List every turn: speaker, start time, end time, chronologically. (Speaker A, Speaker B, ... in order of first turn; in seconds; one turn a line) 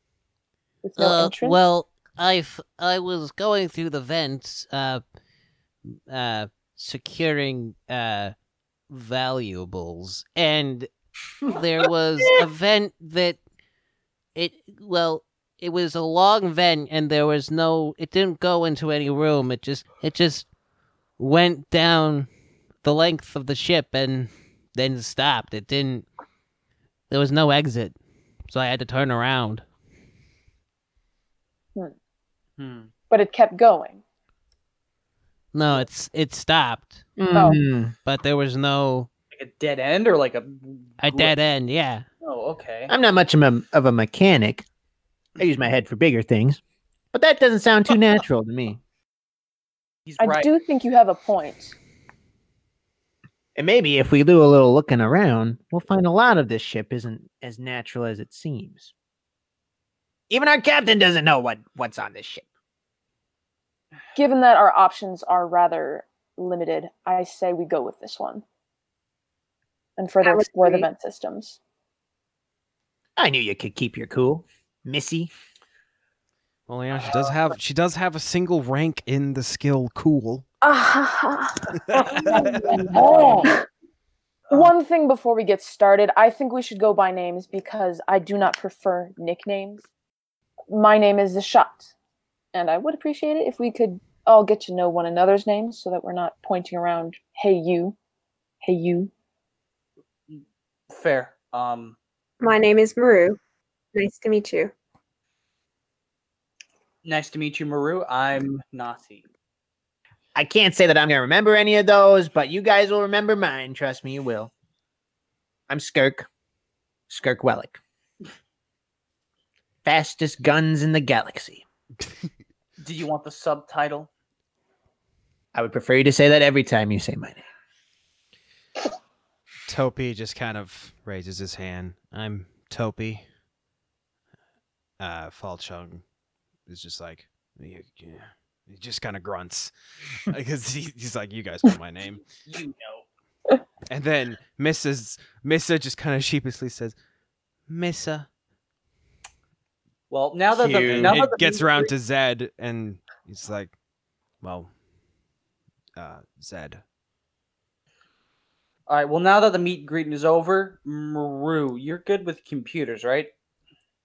Speaker A: 0.8-1.6
Speaker B: 1.0-5.0
Speaker B: 6.1-8.3
Speaker B: 8.9-10.9
Speaker B: 11.4-13.4
Speaker B: 14.3-20.5
Speaker B: 21.2-22.3
Speaker B: 22.8-26.1
Speaker B: 27.1-27.9
Speaker B: 28.5-29.6
Speaker C: 32.6-32.9
Speaker A: 33.1-34.0
Speaker B: 35.5-37.0
Speaker D: 37.2-37.9
Speaker A: 37.3-37.6
Speaker B: 38.0-39.1
Speaker C: 39.3-41.3
Speaker B: 41.0-42.0
Speaker C: 42.2-42.9
Speaker D: 42.9-44.6
Speaker D: 45.4-46.6
Speaker D: 47.1-48.8
Speaker C: 50.0-50.5
Speaker A: 50.2-51.8
Speaker D: 53.5-58.9
Speaker D: 60.3-62.5
Speaker A: 64.1-68.4
Speaker A: 70.0-71.6
Speaker E: 70.2-70.9
Speaker D: 73.2-75.3
Speaker F: 76.7-80.4
Speaker A: 80.6-82.5
Speaker F: 81.9-83.1
Speaker C: 81.9-83.5
Speaker A: 84.5-89.8
Speaker A: 90.7-91.9
Speaker A: 92.5-98.0
Speaker A: 98.6-99.1
Speaker C: 100.3-102.0
Speaker E: 102.4-103.4
Speaker E: 103.9-104.7
Speaker C: 107.0-109.2
Speaker D: 110.3-114.5
Speaker D: 115.7-116.3
Speaker D: 117.1-117.8
Speaker D: 119.8-121.6
Speaker C: 122.8-124.1
Speaker D: 125.5-127.4
Speaker F: 129.7-133.2
Speaker F: 135.0-136.0
Speaker F: 136.7-139.7
Speaker F: 140.3-142.2
Speaker C: 142.4-143.0
Speaker F: 143.9-146.9
Speaker F: 147.7-148.3
Speaker C: 150.1-151.9
Speaker F: 150.5-153.7
Speaker D: 150.8-151.2
Speaker F: 154.4-154.7
Speaker F: 155.9-156.8
Speaker C: 158.9-163.3